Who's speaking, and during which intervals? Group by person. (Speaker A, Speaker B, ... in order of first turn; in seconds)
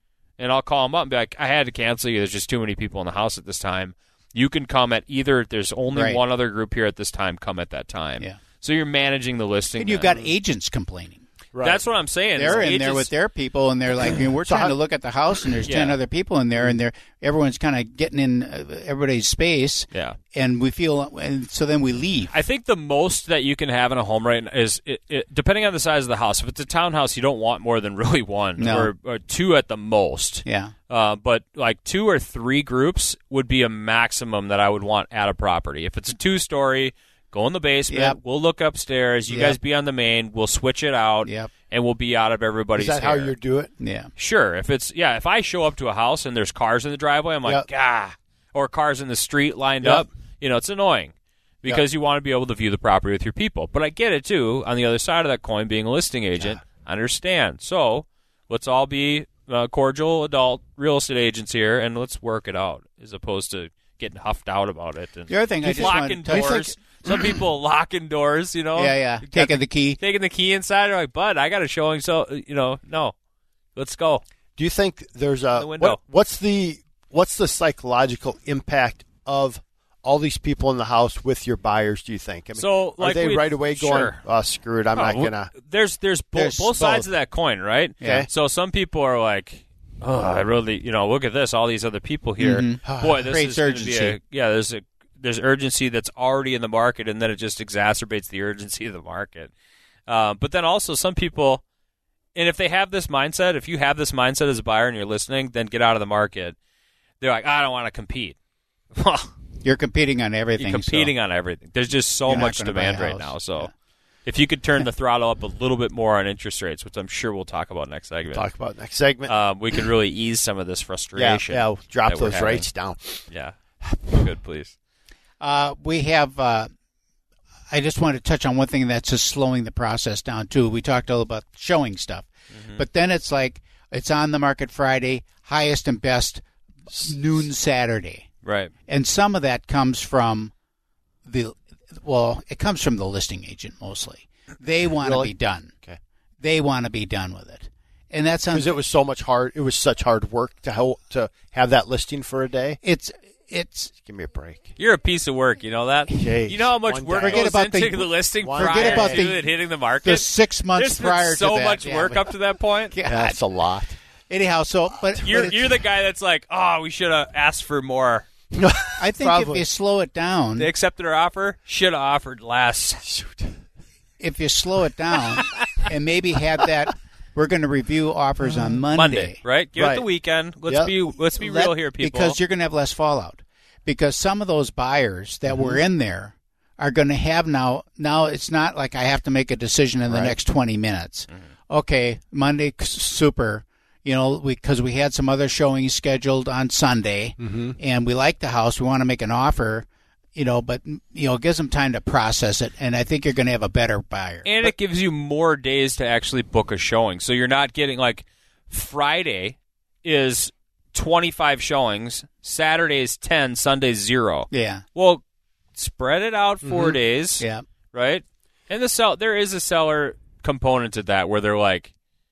Speaker A: 0.4-10.1, 11.6-13.1, 15.6-16.0, 19.9-20.2, 22.3-43.3, 44.1-73.1, 73.7-74.2, 75.5-76.0, 82.5-84.2, 84.9-99.5, 100.1-101.6, 102.3-106.5, 107.2-108.3, 108.9-109.3, 110.6-113.7, 114.2-118.4, 119.2-122.7, 123.3-124.7, 132.5-132.8, 138.4-138.7, 154.8-162.9, 165.2-168.2, 170.6-173.0, 178.9-182.4, 204.4-215.2, 215.8-221.9
Speaker B: 5.9-6.2, 9.8-11.2, 12.3-22.3, 28.6-28.9, 30.4-30.7, 37.9-38.2, 39.3-39.6, 41.2-41.5, 43.8-44.1, 65.3-67.1, 68.7-70.0, 86.3-87.1, 88.0-88.3, 92.4-94.2, 109.6-111.1, 112.2-113.7, 125.4-126.7, 127.7-138.3, 138.9-140.5, 141.2-145.7, 146.4-148.7, 152.8-153.9, 157.2-162.3, 162.8-163.4, 164.3-165.7, 169.0-170.7, 174.2-179.4, 181.2-204.7, 214.5-214.8, 217.4-217.6
Speaker C: 10.1-10.3, 11.5-11.8, 14.4-14.8, 42.7-43.7, 65.7-66.7, 74.6-85.5, 88.0-88.3, 118.3-119.8, 121.1-123.2, 145.0-146.0, 148.5-152.8, 154.0-154.7, 156.1-157.5, 158.4-159.2, 163.0-163.9, 168.5-169.7, 173.0-173.6, 179.8-180.1, 180.7-180.9, 185.5-185.8, 190.1-190.4, 197.4-197.8